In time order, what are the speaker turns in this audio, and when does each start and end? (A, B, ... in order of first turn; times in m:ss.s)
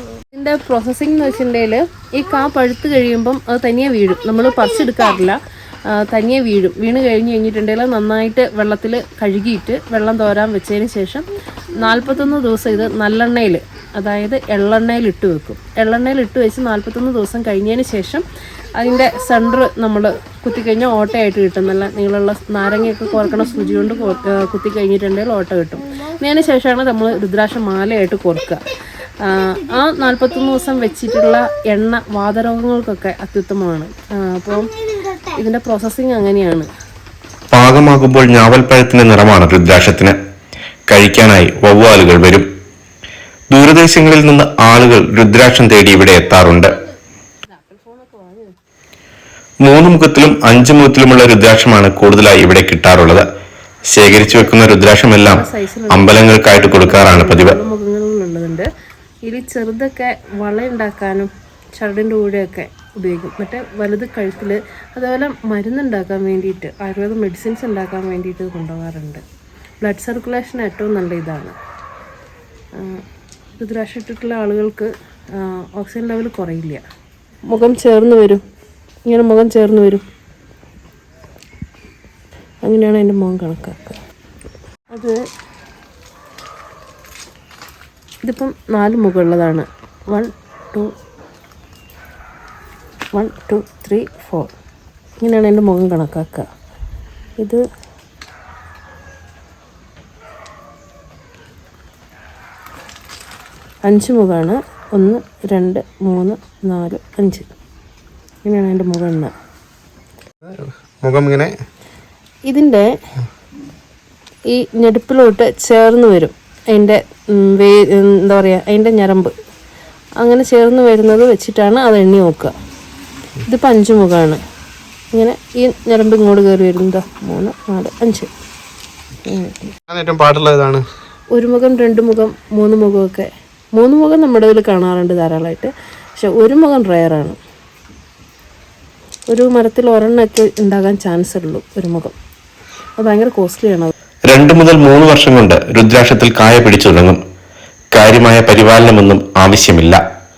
0:00.3-0:28.6 A
0:29.2-0:34.7 A
0:35.2-0:36.7 A
0:37.5-0:40.2 B
0:40.9-0:42.4 B
0:43.5-0:46.7 B
0:47.4-0:48.5 A
0:49.6-0:53.2 B
0:53.9-0:57.6 B
0:55.2-0:58.7 A
0:59.2-1:09.2 A
1:09.8-1:11.5 A
1:12.8-1:13.0 A
1:13.6-1:16.8 A
1:17.5-1:18.4 A
1:19.1-1:20.0 A
1:22.6-1:24.0 A
1:24.9-1:25.2 A
1:28.2-1:30.9 A
1:33.1-1:34.5 A
1:35.2-1:36.5 A
1:43.9-1:47.5 A
1:48.4-1:49.3 A
1:50.4-1:51.5 C
1:52.5-1:52.9 A
1:54.5-1:59.3 A
2:00.2-2:02.5 A
2:03.4-2:04.4 A
2:05.1-2:08.3 A
2:09.2-2:09.7 A
2:09.9-2:10.8 C
2:11.3-2:17.4 A
2:19.3-2:22.1 A
2:23.0-2:23.9 A
2:24.3-2:27.2 B
2:27.9-2:30.0 B